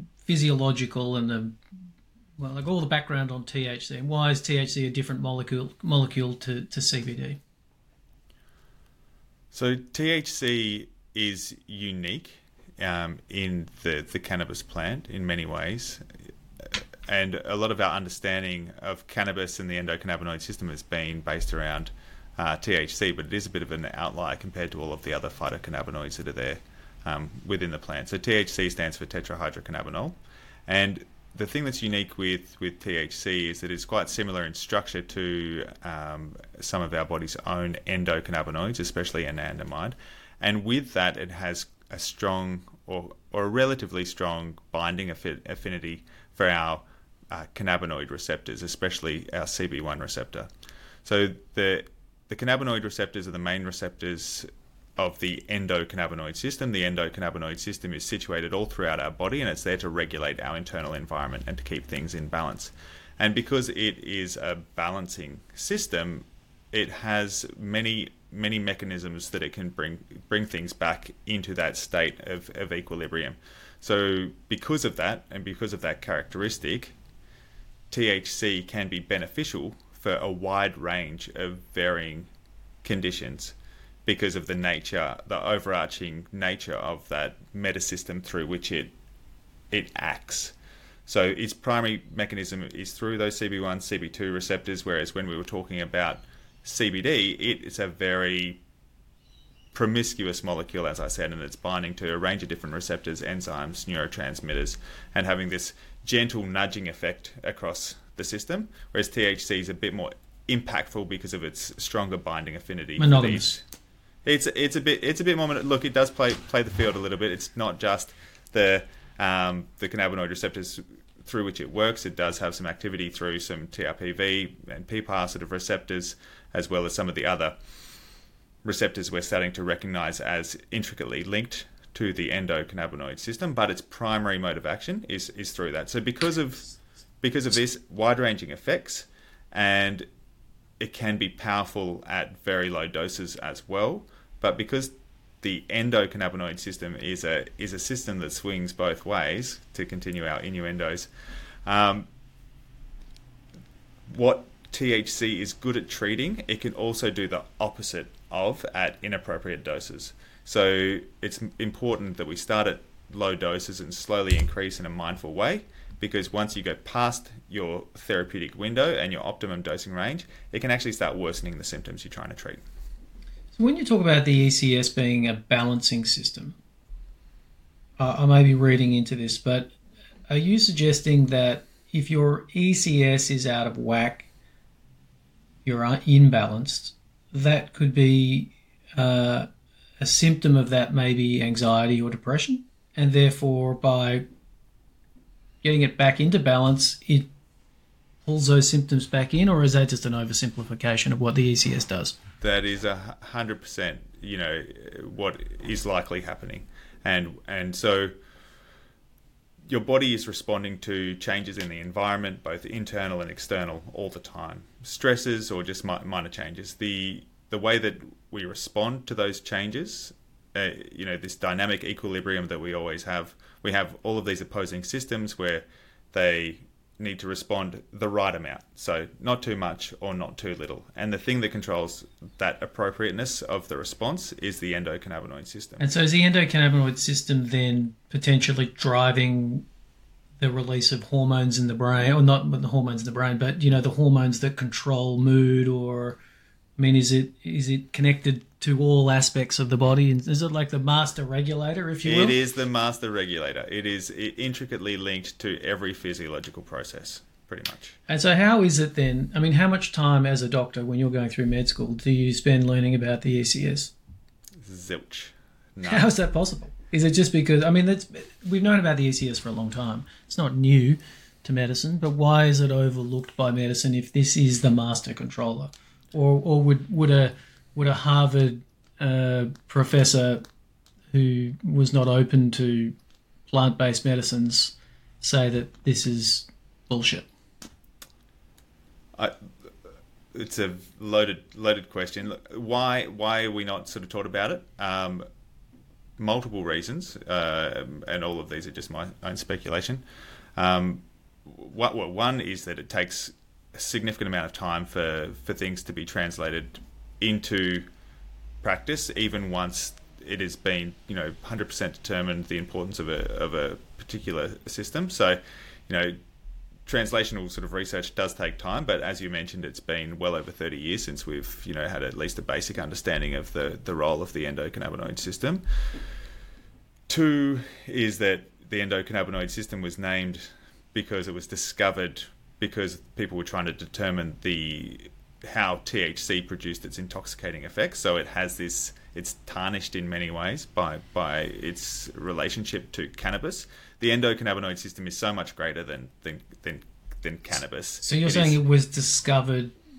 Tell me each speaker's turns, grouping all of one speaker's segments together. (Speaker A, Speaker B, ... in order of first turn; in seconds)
Speaker A: 0.2-1.6, 2.4-7.4, 113.0-113.6, 173.6-176.6, 178.0-179.7, 180.3-184.3, 185.6-189.5, 190.0-194.2, 195.6-197.3, 198.2-202.2, 235.8-239.7, 240.4-246.2, 246.8-252.4, 258.1-263.9, 265.8-280.4, 281.1-282.9, 283.5-287.2, 348.0-349.7
Speaker B: 9.5-16.0, 16.6-50.5, 51.0-76.9, 77.9-82.3, 82.8-88.9, 89.7-90.5, 91.0-98.6, 99.7-113.6, 114.2-127.5, 128.6-140.1, 140.8-151.1, 151.7-152.1, 154.1-172.6, 202.4-208.1, 209.7-235.8, 252.0-258.0, 264.6-266.1, 290.3-295.2, 296.2-300.0, 300.6-307.8, 308.6-316.2, 316.9-325.6, 327.1-348.6